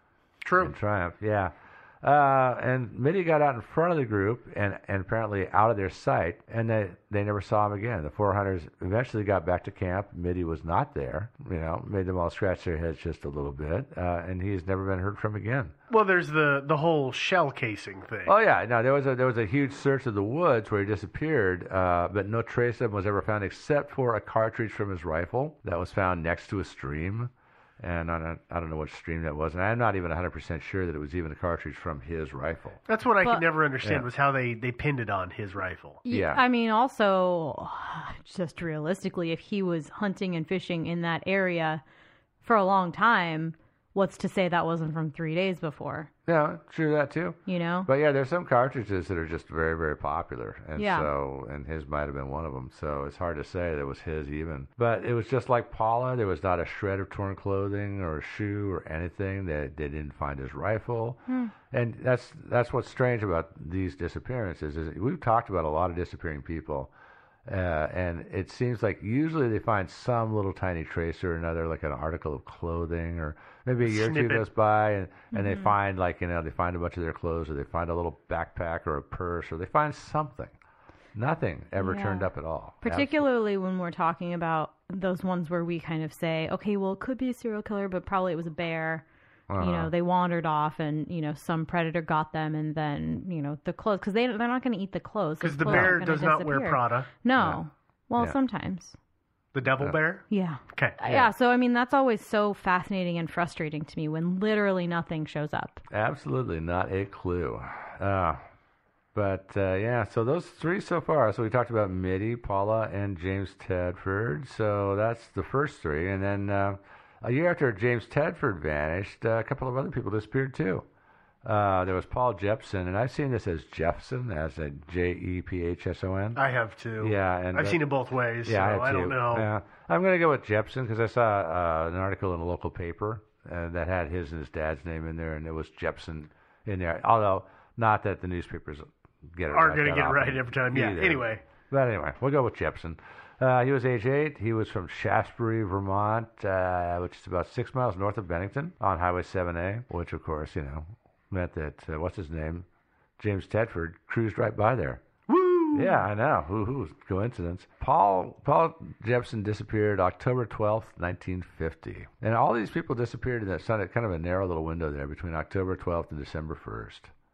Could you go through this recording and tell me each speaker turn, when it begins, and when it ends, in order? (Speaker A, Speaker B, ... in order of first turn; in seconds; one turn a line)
Speaker A: 0.4-0.7
Speaker B: 0.6-15.7
Speaker A: 15.9-18.3
Speaker B: 18.3-32.8
Speaker A: 32.9-36.0
Speaker B: 33.8-34.1
Speaker C: 36.0-41.8
Speaker B: 36.1-36.4
Speaker C: 42.4-46.1
Speaker B: 46.3-66.9
Speaker C: 47.5-47.9
Speaker C: 50.8-51.1
Speaker C: 61.3-61.5
Speaker B: 67.5-80.5
Speaker A: 73.8-74.5
Speaker C: 75.3-75.7
Speaker B: 81.2-83.2
Speaker C: 81.8-82.3
Speaker C: 82.8-89.0
Speaker B: 89.5-89.9
Speaker C: 89.6-99.0
Speaker A: 95.4-97.1
Speaker B: 95.6-96.0
Speaker A: 99.5-101.0
Speaker C: 100.3-105.8
Speaker B: 101.0-101.3
Speaker B: 105.9-108.4
Speaker B: 109.2-120.9
Speaker B: 121.4-126.4
Speaker A: 126.4-129.5
Speaker B: 127.0-127.8
Speaker B: 128.4-152.7
Speaker A: 139.5-141.4
Speaker B: 153.2-155.0
Speaker A: 155.3-156.0
Speaker B: 155.7-167.1